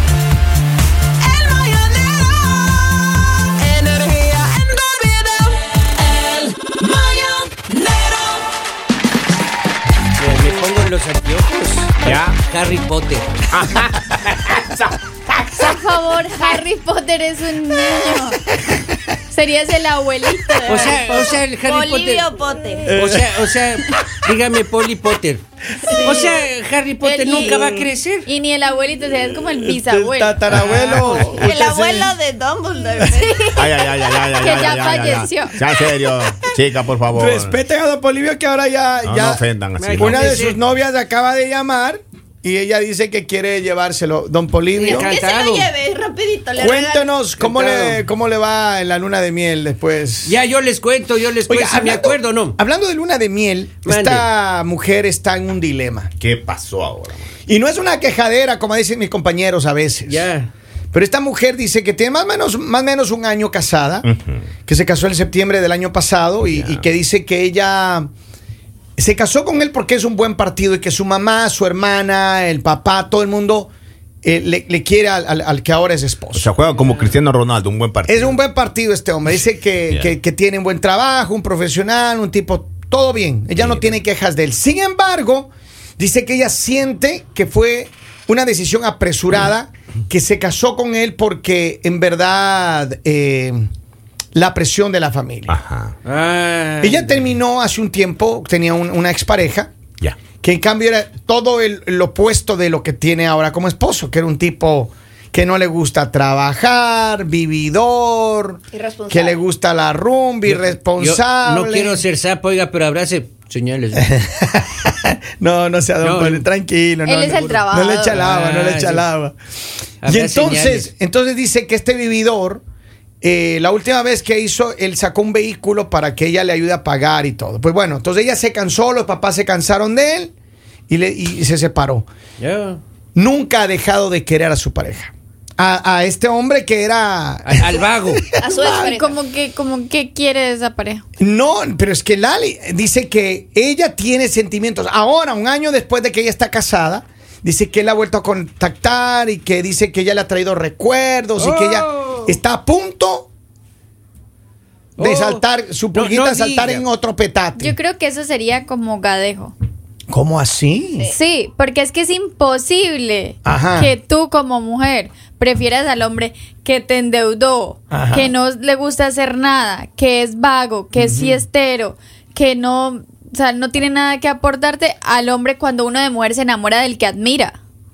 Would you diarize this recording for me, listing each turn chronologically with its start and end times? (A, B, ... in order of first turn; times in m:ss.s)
0:01.4-0:02.3 A
0:03.9-0:05.3 A
0:07.2-0:07.6 B
0:10.2-0:13.3 B
0:12.0-0:12.4 C
0:13.5-0:14.9 C
0:15.5-0:18.4 D
0:19.3-0:21.4 D
0:20.6-0:22.9 A
0:20.7-0:22.3 B
0:22.8-0:23.3 E
0:22.9-0:25.4 B
0:25.9-0:26.3 A
0:26.0-0:28.3 B
0:27.0-0:27.7 D
0:27.5-0:27.9 E
0:28.3-0:30.4 D
0:29.6-0:32.1 E
0:30.5-0:31.3 B
0:31.3-0:34.1 A
0:33.3-0:33.6 D
0:33.6-0:37.6 C
0:34.3-0:35.6 D
0:37.1-0:39.4 E
0:39.0-0:40.2 C
0:39.8-0:40.6 B
0:40.0-0:45.1 E
0:44.8-0:45.7 B
0:44.8-0:47.1 A
0:46.6-0:50.4 E
0:47.4-0:48.0 B
0:50.2-0:52.6 B
0:51.5-0:56.1 E
0:53.8-0:54.3 B
0:56.2-0:57.3 C
0:57.5-1:00.3 E
1:00.1-1:00.5 B
1:00.9-1:04.1 E
1:04.0-1:04.4 C
1:04.7-1:08.1 E
1:06.6-1:06.8 C
1:09.0-1:13.7 E
1:14.2-1:16.5 E
1:16.4-1:18.4 C
1:16.8-1:17.1 B
1:18.1-1:33.6 E
1:34.3-1:35.5 E
1:35.5-1:35.9 C
1:36.1-1:37.1 B
1:36.8-1:39.7 E
1:40.4-1:52.0 E
1:48.7-1:49.4 A
1:50.5-1:54.1 B
1:54.1-1:59.4 E
1:56.0-1:56.4 B
1:57.1-1:58.2 D
1:58.1-1:59.0 B
2:00.0-2:00.9 B
2:00.0-2:02.6 E
2:03.2-2:10.3 E
2:10.9-2:12.1 E
2:12.4-2:12.8 B
2:13.2-2:19.0 E
2:17.5-2:18.3 B
2:18.4-2:19.2 A
2:18.7-2:21.0 D
2:21.2-2:33.3 E
2:31.4-2:32.4 B
2:35.0-2:36.8 B
2:35.0-2:37.7 E
2:37.6-2:39.5 D
2:40.1-2:41.1 E
2:41.1-2:57.6 D
2:43.4-2:43.9 E
2:47.9-2:48.3 E
2:51.0-2:51.4 E